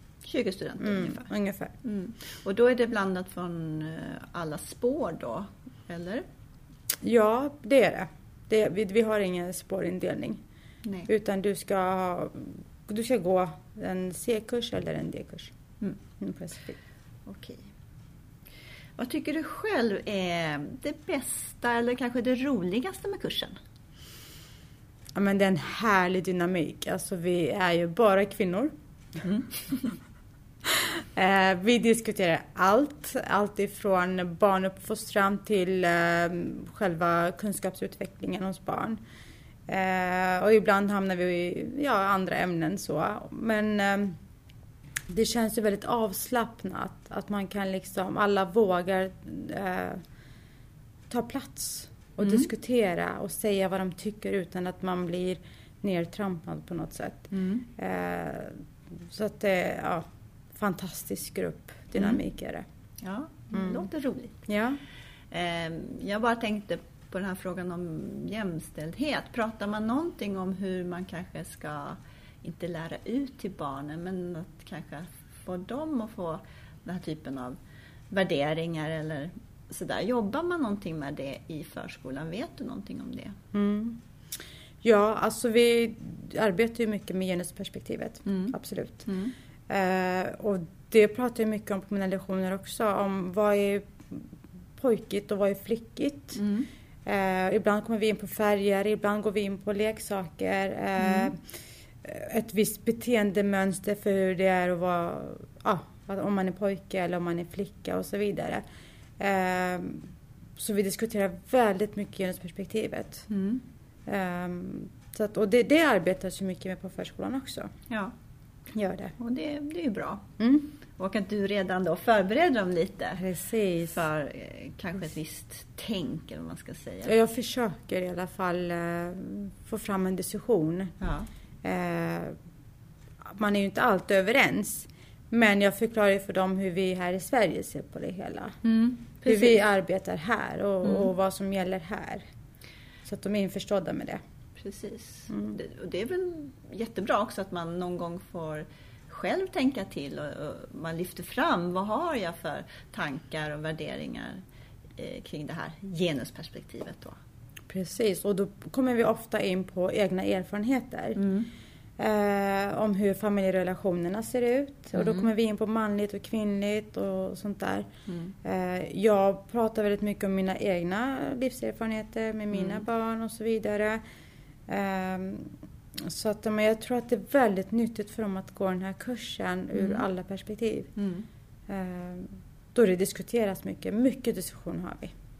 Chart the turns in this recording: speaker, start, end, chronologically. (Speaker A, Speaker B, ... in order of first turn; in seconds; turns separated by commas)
Speaker A: 0.2-1.3, Speaker B: 0.8-1.7, Speaker A: 1.8-6.3, Speaker B: 7.0-10.4, Speaker B: 11.1-15.5, Speaker B: 16.2-16.8, Speaker A: 17.3-17.7, Speaker A: 19.0-23.6, Speaker B: 25.1-28.7, Speaker B: 30.6-39.0, Speaker B: 39.7-44.2, Speaker B: 45.1-50.0, Speaker B: 51.1-62.6, Speaker A: 57.3-57.7, Speaker A: 63.0-64.3, Speaker B: 63.5-63.9, Speaker B: 64.5-64.8, Speaker A: 65.3-77.6, Speaker A: 78.1-83.4, Speaker B: 83.5-84.0, Speaker B: 84.8-89.1, Speaker A: 88.3-89.3, Speaker B: 89.7-94.3, Speaker B: 94.8-96.4, Speaker A: 96.4-96.7, Speaker B: 97.0-101.4, Speaker A: 101.0-101.3, Speaker B: 102.0-108.6, Speaker B: 109.2-113.3, Speaker A: 113.3-113.6, Speaker B: 114.1-117.7, Speaker B: 118.7-119.1, Speaker A: 119.2-120.3, Speaker B: 120.4-120.7, Speaker A: 121.0-123.2, Speaker B: 123.2-124.0, Speaker A: 123.9-127.1, Speaker B: 127.1-130.9, Speaker A: 131.0-131.3, Speaker B: 131.6-132.4, Speaker B: 133.2-138.6, Speaker A: 138.6-139.6, Speaker B: 139.2-142.3, Speaker B: 143.1-144.2, Speaker A: 144.6-154.4, Speaker B: 145.3-145.6, Speaker A: 155.0-157.2, Speaker B: 157.7-161.2, Speaker A: 161.2-161.5, Speaker B: 162.0-167.9, Speaker A: 164.9-165.3, Speaker A: 168.1-168.3, Speaker B: 168.4-174.0, Speaker A: 172.5-172.8, Speaker B: 174.7-180.9, Speaker A: 179.8-180.1, Speaker A: 181.0-181.3, Speaker B: 181.7-185.1